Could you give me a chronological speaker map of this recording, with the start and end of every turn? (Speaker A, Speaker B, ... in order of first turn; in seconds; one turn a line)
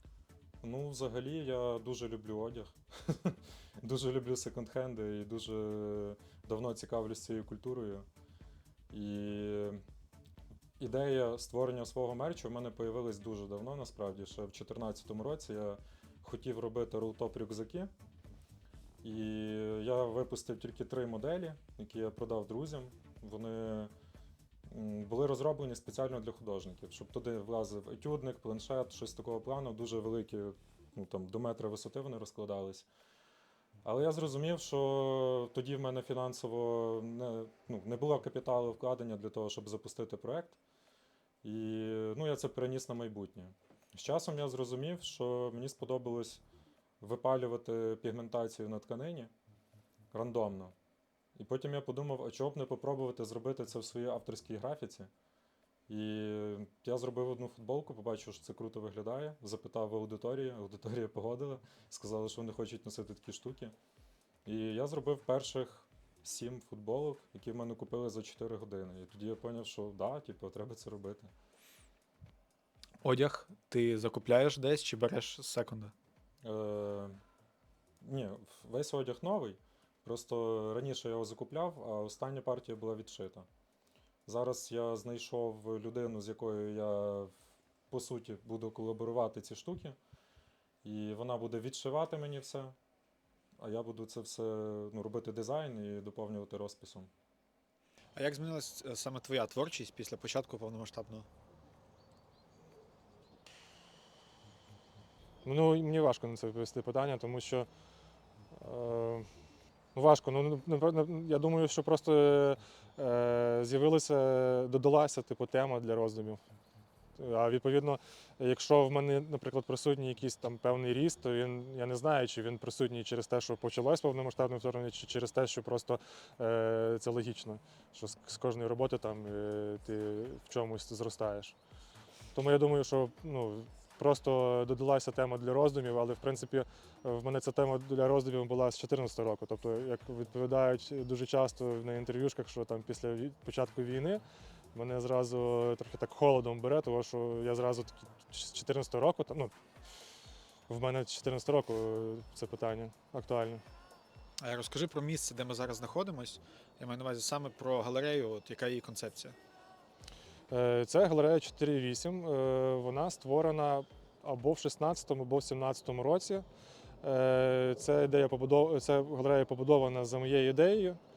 Speaker A: 0.6-8.1
Speaker A: 8.9-9.8
Speaker A: 10.8-17.9
Speaker A: 19.0-23.9
Speaker A: 24.7-32.9
Speaker A: 33.8-40.6
Speaker A: 41.4-46.4
Speaker A: 47.0-49.3
Speaker A: 50.1-50.7
Speaker A: 51.4-55.1
Speaker A: 55.9-63.7
Speaker A: 64.5-71.3
Speaker B: 73.0-75.9
Speaker A: 76.4-77.2
Speaker A: 78.0-83.5
Speaker A: 84.2-87.3
Speaker A: 87.9-90.0
Speaker A: 90.8-92.8
Speaker A: 93.6-97.1
Speaker B: 98.1-101.3
Speaker C: 105.4-107.7
Speaker C: 108.5-109.2
Speaker C: 109.9-116.4
Speaker C: 117.2-131.6
Speaker C: 132.3-144.2
Speaker C: 144.7-149.5
Speaker C: 150.7-153.6
Speaker B: 154.4-159.4
Speaker C: 160.5-166.5
Speaker C: 167.0-171.0